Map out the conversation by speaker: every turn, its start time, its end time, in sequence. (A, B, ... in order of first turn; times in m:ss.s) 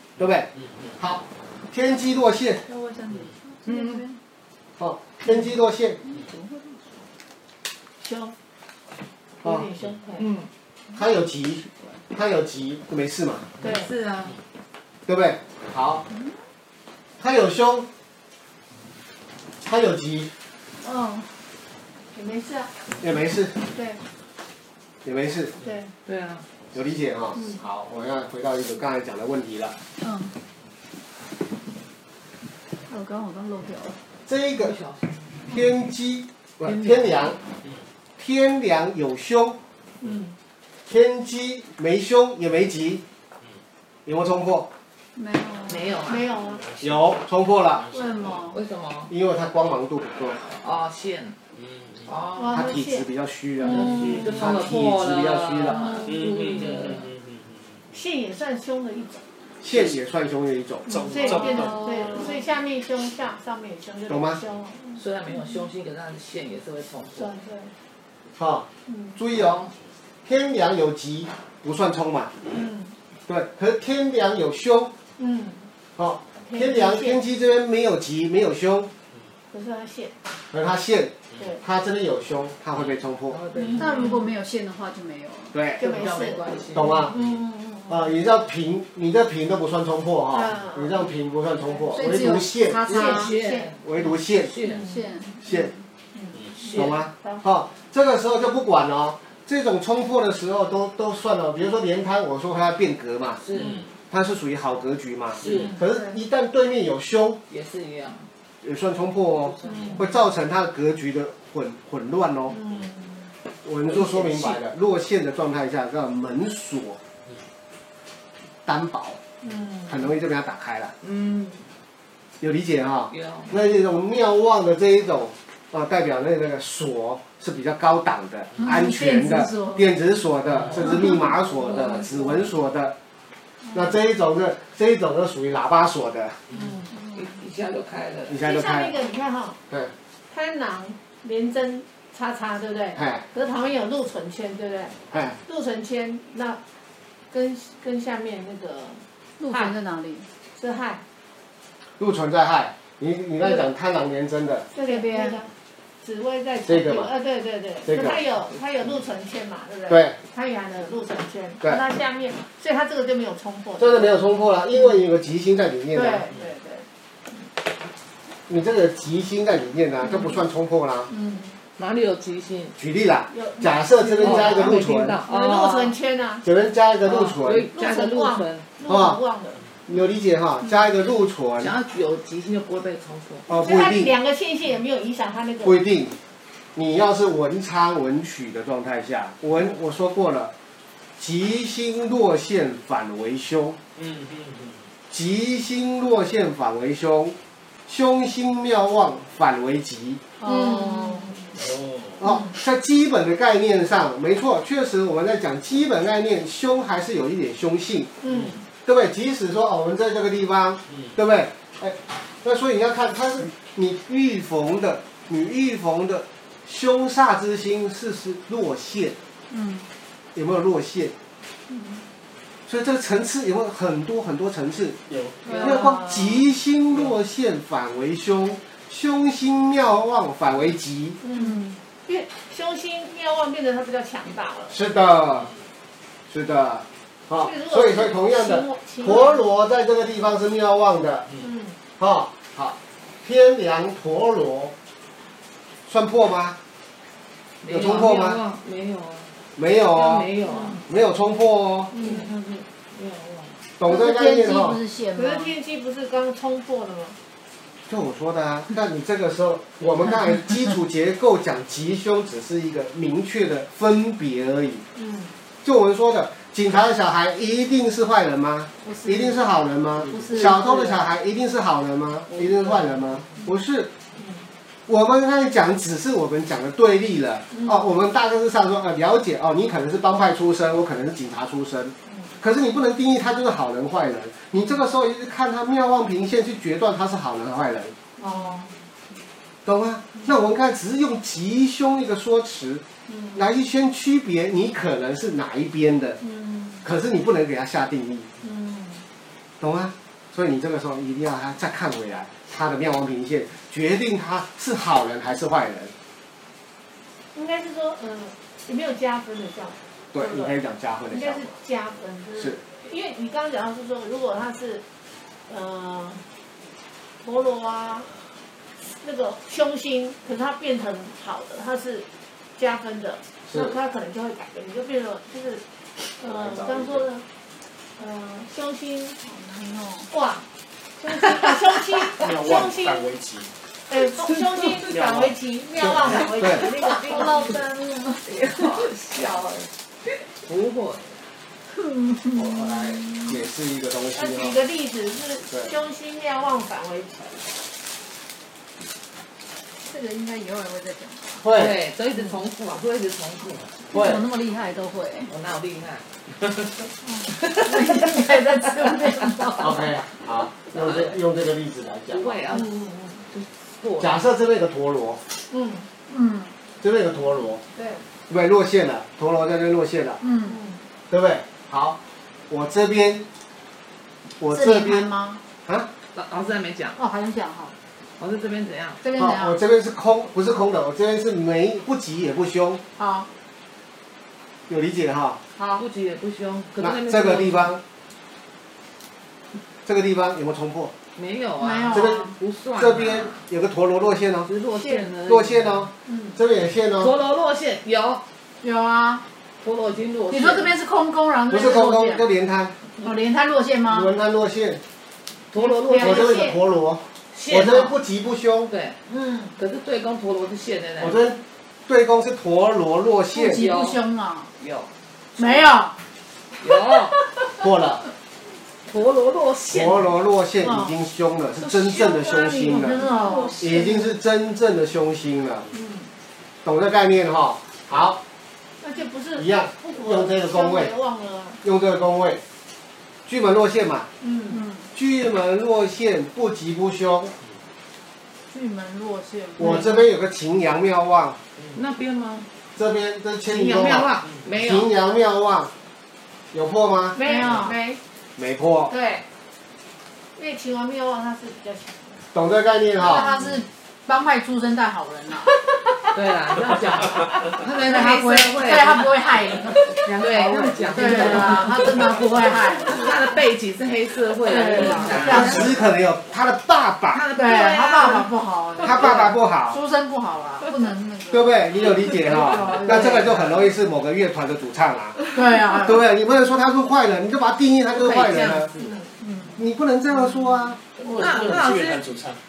0:00.2-0:02.6 A
0:02.7-0:04.2 B
0:03.7-0:04.1 C
0:04.8-0:06.0 A
0:06.0-0:06.8 B
0:08.0-0:08.3 D
0:09.4-0:10.3 D
0:09.4-0:09.7 A
0:10.2-0:10.5 C
0:10.9-0:13.5 A
0:13.6-0:13.9 D
0:13.6-0:14.4 C
0:15.1-0:16.0 A
0:17.2-0:17.9 A
0:19.6-0:20.3 A
0:20.8-0:21.3 B
0:22.1-0:22.7 D
0:23.0-0:23.6 A
0:23.7-0:24.0 D
0:25.0-0:25.5 A
0:25.6-0:25.9 D
0:26.0-0:26.5 C
0:26.7-0:29.8 A
0:27.4-0:27.6 D
0:30.0-0:30.4 B
0:32.9-0:34.0 B
0:34.3-0:34.8 A
0:34.6-0:35.3 C
0:35.5-0:37.4 A
0:36.6-0:37.4 C
0:38.2-0:39.6 A
0:40.0-0:40.4 D
0:40.9-0:43.0 A
0:44.1-0:44.7 A
0:45.2-0:46.1 B
0:45.7-0:46.3 C
0:46.1-0:46.7 D
0:46.8-0:47.9 A
0:47.9-0:48.6 B
0:48.4-0:49.1 C
0:49.1-0:50.5 A
0:50.6-0:51.4 C
0:52.0-0:52.6 C
0:52.4-0:53.1 D
0:52.5-0:56.0 A
0:53.6-0:57.1 C
0:53.7-0:54.3 D
0:56.2-0:57.2 E
0:57.9-0:59.2 D
0:59.6-1:01.0 A
1:00.9-1:05.6 D
1:00.9-1:01.9 E
1:01.6-1:02.3 B
1:04.1-1:04.4 A
1:05.0-1:07.3 C
1:07.1-1:07.7 D
1:08.4-1:09.7 A
1:08.9-1:09.2 D
1:09.3-1:09.7 C
1:10.2-1:12.3 A
1:12.5-1:13.0 D
1:13.3-1:14.9 A
1:15.2-1:15.7 D
1:16.0-1:18.9 A
1:16.4-1:17.2 D
1:19.5-1:20.3 D
1:20.5-1:23.4 A
1:21.4-1:21.6 D
1:23.3-1:24.2 C
1:23.6-1:24.3 D
1:23.7-1:25.6 B
1:25.5-1:26.0 A
1:25.8-1:27.3 C
1:25.8-1:26.4 D
1:26.7-1:27.2 A
1:27.1-1:28.2 D
1:27.9-1:32.9 A
1:30.3-1:32.2 D
1:31.9-1:33.3 B
1:32.9-1:34.9 C
1:32.9-1:33.9 D
1:33.8-1:34.5 A
1:34.6-1:37.5 D
1:34.7-1:35.8 B
1:35.4-1:35.7 A
1:36.6-1:37.0 C
1:36.7-1:43.4 A
1:43.4-1:43.8 C
1:44.1-1:47.4 A
1:45.4-1:45.8 C
1:45.5-1:46.2 D
1:47.5-1:48.3 C
1:48.6-1:52.6 A
1:49.5-1:50.1 C
1:49.6-1:50.1 D
1:52.5-1:53.3 D
1:53.6-1:57.0 A
1:53.8-1:54.6 C
1:58.6-1:59.2 A
1:59.4-2:00.0 D
1:59.9-2:00.9 A
2:01.0-2:01.7 C
2:02.4-2:13.0 A
2:03.1-2:03.6 C
2:08.6-2:09.9 B
2:10.7-2:12.5 C
2:10.8-2:11.2 B
2:13.7-2:16.4 A
2:16.5-2:16.9 D
2:16.9-2:17.3 B
2:17.1-2:18.4 C
2:18.3-2:19.0 A
2:18.4-2:19.6 D
2:20.3-2:26.6 D
2:23.0-2:23.2 A
2:25.1-2:25.4 A
2:27.3-2:29.8 D
2:29.4-2:30.3 B
2:30.5-2:31.0 D
2:32.0-2:34.7 A
2:33.4-2:33.7 D
2:34.7-2:44.3 D
2:34.8-2:35.4 B
2:36.7-2:37.1 A
2:37.8-2:38.2 A
2:39.9-2:40.2 A
2:43.8-2:46.3 A
2:45.9-2:46.9 D
2:48.5-2:51.1 A
2:50.0-2:50.4 C
2:51.1-2:51.6 D
2:51.8-2:52.8 C
2:52.8-2:55.2 A
2:53.3-2:56.4 D
2:54.2-2:56.0 C
2:56.4-2:57.7 A
2:57.0-2:58.7 C
2:57.7-2:59.7 D
2:58.9-2:59.2 A
2:59.9-3:01.7 A
3:00.6-3:00.9 D
3:01.6-3:03.5 C
3:03.5-3:04.1 A
3:03.5-3:05.8 D
3:05.6-3:06.2 A
3:06.8-3:10.5 A
3:11.2-3:13.8 A
3:14.1-3:14.7 E
3:15.1-3:17.4 A
3:17.9-3:20.2 A
3:20.4-3:21.6 D
3:20.4-3:21.3 B
3:21.6-3:22.2 E
3:22.2-3:28.1 A
3:22.2-3:22.5 D
3:28.2-3:28.6 D
3:28.8-3:39.2 A
3:39.5-3:39.9 B
3:40.4-3:41.1 A
3:41.7-3:42.0 D
3:42.7-3:45.0 A
3:45.4-3:46.4 D
3:45.5-3:51.2 A
3:51.2-3:54.8 D
3:51.3-3:51.8 B
3:54.7-3:55.5 A
3:56.3-4:01.3 A
3:57.4-3:59.4 D
4:01.4-4:01.8 D
4:02.0-4:04.7 A
4:05.9-4:06.6 A
4:07.6-4:09.4 C
4:07.7-4:08.4 A
4:09.6-4:10.3 A
4:09.9-4:10.8 C
4:10.5-4:10.8 D
4:10.9-4:12.0 A
4:11.9-4:12.4 D
4:12.0-4:13.6 C
4:13.8-4:14.8 A
4:13.8-4:15.6 B
4:15.2-4:17.2 D
4:17.9-4:24.8 A
4:25.0-4:25.3 D
4:25.6-4:33.9 A
4:28.8-4:29.4 B
4:30.0-4:30.9 B
4:30.1-4:30.4 C
4:32.3-4:33.4 C
4:34.2-4:34.5 D
4:34.9-4:48.0 A
4:37.5-4:37.9 D
4:42.1-4:42.3 D
4:48.2-4:48.7 D
4:49.6-4:52.8 A
4:53.1-4:53.4 D
4:53.4-4:56.2 A
4:56.2-4:56.8 D
4:56.8-4:58.3 A
4:58.4-4:59.0 D
4:59.6-5:05.9 A
5:07.3-5:10.6 D
5:10.1-5:11.6 A
5:11.1-5:14.8 D
5:15.5-5:16.2 D
5:17.2-5:18.1 D
5:18.8-5:25.6 D
5:26.2-5:27.2 D
5:26.5-5:26.9 E
5:28.0-5:29.2 D
5:29.2-5:30.1 B
5:30.1-5:30.4 D
5:31.0-5:33.2 D
5:32.2-5:33.5 E
5:33.9-5:37.5 D
5:34.9-5:35.3 E
5:36.2-5:36.7 A
5:36.5-5:37.6 C
5:36.6-5:38.8 B
5:38.2-5:41.2 C
5:41.7-5:43.3 B
5:42.7-5:43.0 E
5:43.2-5:44.6 A
5:44.2-5:47.5 D
5:49.8-5:51.5 B
5:51.4-5:51.8 A
5:51.5-5:53.9 C
5:53.9-5:55.3 B
5:53.9-5:54.2 A
5:55.3-5:56.1 C
5:57.0-6:00.0 B
5:57.3-5:59.8 C
5:59.6-6:02.4 A
6:00.7-6:01.1 C
6:02.1-6:04.2 C
6:02.5-6:03.1 D
6:04.0-6:05.2 A
6:05.5-6:05.9 D
6:06.1-6:06.5 B
6:06.8-6:07.6 A
6:07.8-6:08.0 D
6:08.3-6:10.2 A
6:10.2-6:10.6 B
6:10.4-6:10.8 D
6:11.1-6:12.0 A
6:12.5-6:13.3 A
6:14.4-6:15.1 A
6:14.4-6:15.4 B
6:16.1-6:17.0 C
6:17.0-6:17.8 B
6:18.2-6:19.0 C
6:19.0-6:19.6 B
6:19.2-6:22.8 A
6:23.0-6:23.3 B
6:24.7-6:25.4 A
6:25.5-6:25.8 B
6:25.7-6:27.8 C
6:26.8-6:27.8 A
6:29.8-6:30.9 A
6:31.2-6:33.4 C
6:31.6-6:32.2 B
6:31.9-6:34.5 A
6:34.5-6:35.9 C
6:34.7-6:35.1 D
6:35.3-6:37.1 A
6:36.0-6:36.4 D
6:37.0-6:38.2 C
6:38.6-6:39.2 B
6:39.6-6:40.8 C
6:40.3-6:42.3 B
6:41.5-6:42.8 A
6:43.0-6:44.1 B
6:43.9-6:44.8 A
6:45.5-6:46.4 C
6:45.6-6:46.6 D
6:45.9-6:48.7 A
6:47.3-6:48.0 C
6:48.7-6:49.0 C
6:49.1-6:49.6 D
6:49.6-6:51.3 C
6:51.0-6:53.6 A
6:53.4-6:54.5 B
6:53.4-6:54.1 C
6:54.6-6:55.7 C
6:55.4-6:56.0 B
6:56.6-6:57.2 C
6:57.5-6:58.1 A
6:58.8-7:00.1 C
6:59.7-7:05.7 A
7:00.6-7:00.9 B
7:01.6-7:03.6 C
7:02.6-7:04.0 B
7:05.7-7:06.1 D
7:06.6-7:08.2 A
7:07.9-7:08.1 C
7:08.8-7:11.6 D
7:09.4-7:10.9 A
7:11.6-7:12.4 A
7:13.3-7:14.1 A
7:14.2-7:14.6 D
7:14.5-7:14.9 B
7:14.9-7:17.3 A
7:18.5-7:19.9 B
7:19.6-7:21.4 A
7:19.6-7:20.0 D
7:21.7-7:22.5 C
7:22.8-7:25.7 A
7:23.5-7:24.9 C
7:26.5-7:27.2 A
7:27.1-7:28.0 D
7:27.2-7:27.8 B
7:28.4-7:28.9 A
7:28.9-7:29.2 D
7:30.4-7:32.2 D
7:32.3-7:33.3 A
7:33.0-7:35.6 B
7:36.1-7:39.4 C
7:37.7-7:43.3 B
7:40.0-7:42.2 C
7:40.7-7:42.2 D
7:42.7-7:45.9 C
7:44.4-7:45.7 B
7:45.1-7:47.2 A
7:47.1-7:48.3 C
7:47.4-7:53.7 B
7:48.8-7:49.4 C
7:48.8-7:49.8 A
7:51.3-7:58.7 A
7:55.3-7:56.0 B
7:57.9-7:59.0 C
7:58.8-7:59.2 D
7:59.2-7:59.6 B
7:59.6-8:00.8 A
8:01.0-8:02.1 C
8:01.0-8:01.6 B
8:01.1-8:02.4 E